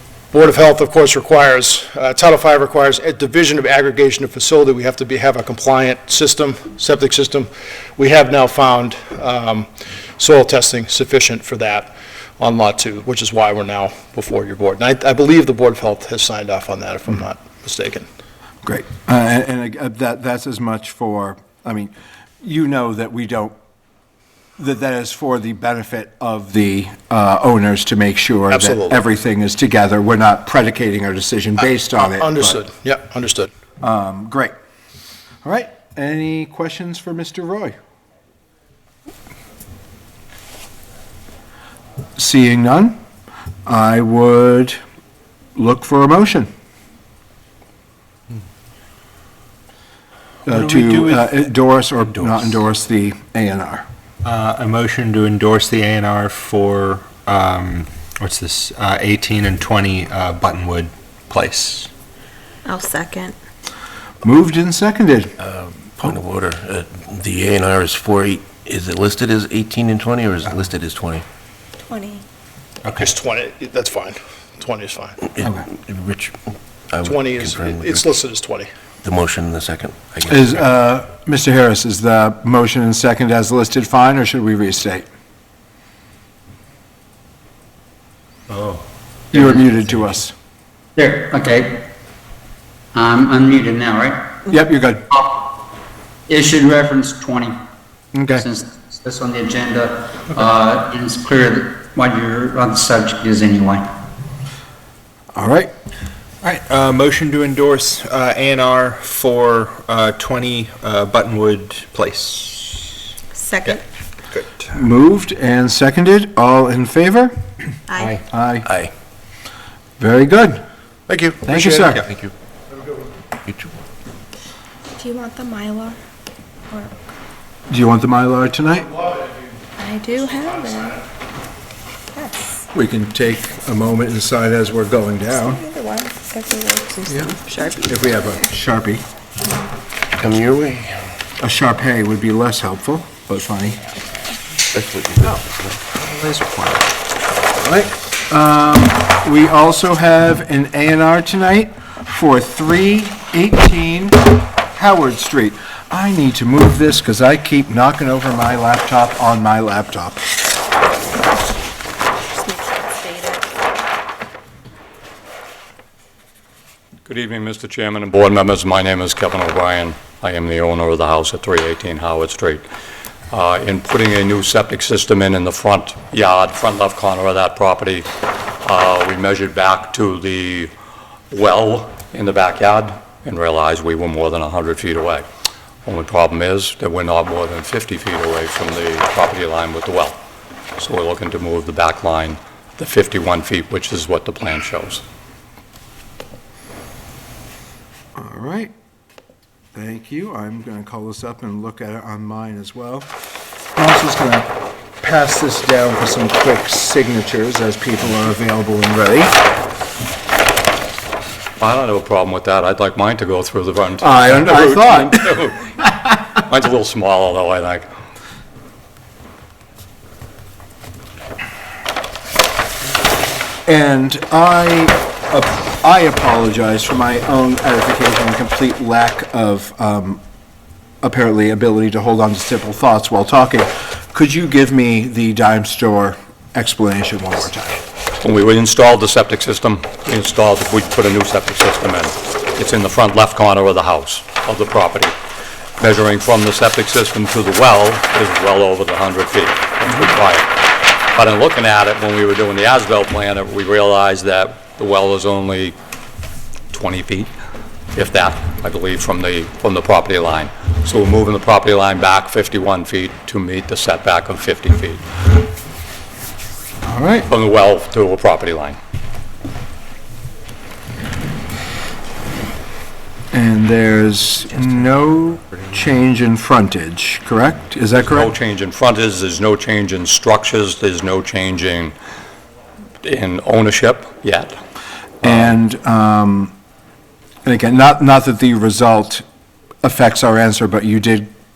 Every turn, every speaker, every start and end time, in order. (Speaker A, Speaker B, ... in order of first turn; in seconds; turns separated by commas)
Speaker A: 0.3-9.7, Speaker A: 10.2-18.1, Speaker B: 18.6-21.9, Speaker B: 22.4-23.6, Speaker B: 24.6-32.6, Speaker A: 28.5-29.0, Speaker A: 32.1-33.5, Speaker B: 33.8-34.5, Speaker B: 35.4-37.8, Speaker B: 42.2-43.0, Speaker B: 43.7-44.8, Speaker B: 45.6-46.5, Speaker B: 50.5-53.9, Speaker C: 50.5-51.2, Speaker C: 54.2-61.9, Speaker D: 62.7-63.4, Speaker B: 64.2-65.3, Speaker E: 65.4-71.2, Speaker D: 71.9-72.2, Speaker A: 73.0-75.2, Speaker E: 75.4-76.4, Speaker E: 76.9-78.1, Speaker A: 77.0-78.7, Speaker E: 79.0-80.7, Speaker B: 80.3-85.1, Speaker F: 89.3-89.6, Speaker B: 89.3-90.3, Speaker F: 91.0-91.9, Speaker F: 92.9-94.4, Speaker B: 94.5-95.1, Speaker F: 96.3-97.5, Speaker B: 98.1-98.4, Speaker F: 98.4-103.8, Speaker B: 105.3-105.7, Speaker C: 106.4-112.9, Speaker D: 113.4-113.8, Speaker B: 114.7-117.3, Speaker B: 118.3-118.7, Speaker E: 118.7-118.9, Speaker B: 120.0-120.6, Speaker E: 121.3-122.3, Speaker B: 121.5-122.0, Speaker C: 121.6-122.0, Speaker E: 123.5-123.7, Speaker D: 125.0-126.0, Speaker B: 127.7-128.9, Speaker D: 129.8-130.9, Speaker B: 132.7-135.6, Speaker D: 135.3-137.8, Speaker B: 137.8-139.1, Speaker E: 140.2-141.0, Speaker B: 141.4-143.9, Speaker E: 144.7-146.9, Speaker B: 147.6-160.2, Speaker G: 167.1-172.6, Speaker G: 173.3-178.1, Speaker G: 178.6-180.7, Speaker G: 181.3-185.2, Speaker G: 185.8-190.2, Speaker G: 190.8-195.0, Speaker B: 198.2-198.7, Speaker B: 199.8-203.1, Speaker B: 203.8-209.4, Speaker G: 211.6-217.9, Speaker B: 214.0-215.4, Speaker B: 223.7-230.2, Speaker B: 231.0-237.8, Speaker G: 238.2-245.1, Speaker G: 245.8-250.5, Speaker G: 251.2-255.8, Speaker G: 256.7-257.3, Speaker G: 257.9-265.0, Speaker B: 266.8-267.3, Speaker G: 267.3-268.8, Speaker B: 273.3-278.3, Speaker E: 274.6-275.0, Speaker G: 278.1-281.9, Speaker G: 283.0-284.5, Speaker B: 285.2-286.5, Speaker G: 285.2-285.5, Speaker B: 287.4-289.2, Speaker B: 289.8-291.3